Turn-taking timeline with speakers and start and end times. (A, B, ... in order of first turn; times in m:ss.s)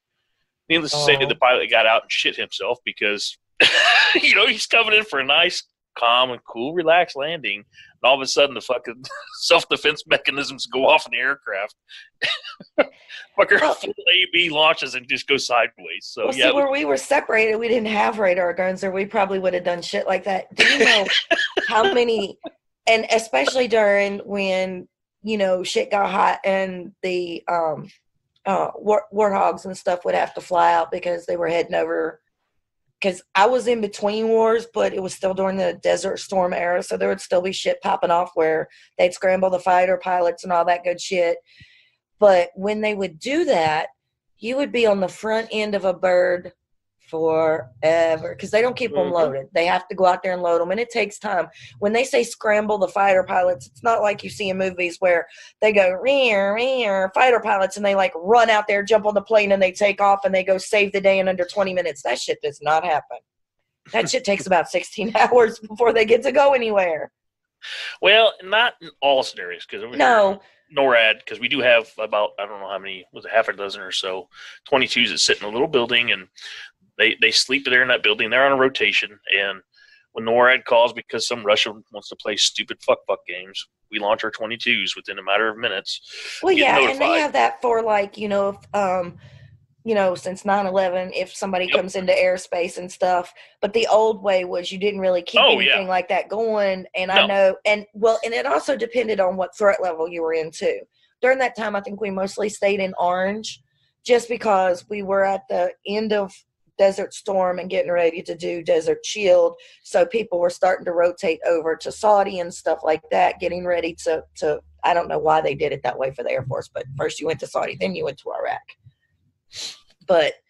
0:00.7-0:16.6 A
0:00.9-0:01.4 B
0:16.2-0:27.9 B
0:20.8-0:21.4 A
0:28.5-0:32.2 B
0:33.0-0:41.4 B
0:42.2-0:46.5 B
0:47.0-1:03.2 B
0:48.9-0:49.3 A
1:03.9-1:07.1 B
1:08.0-1:16.3 A
1:09.9-1:10.4 B
1:17.0-1:19.6 A
1:20.1-1:27.2 A
1:26.4-1:29.2 B
1:29.8-1:58.7 B
1:35.4-1:35.8 A
2:00.0-2:00.4 B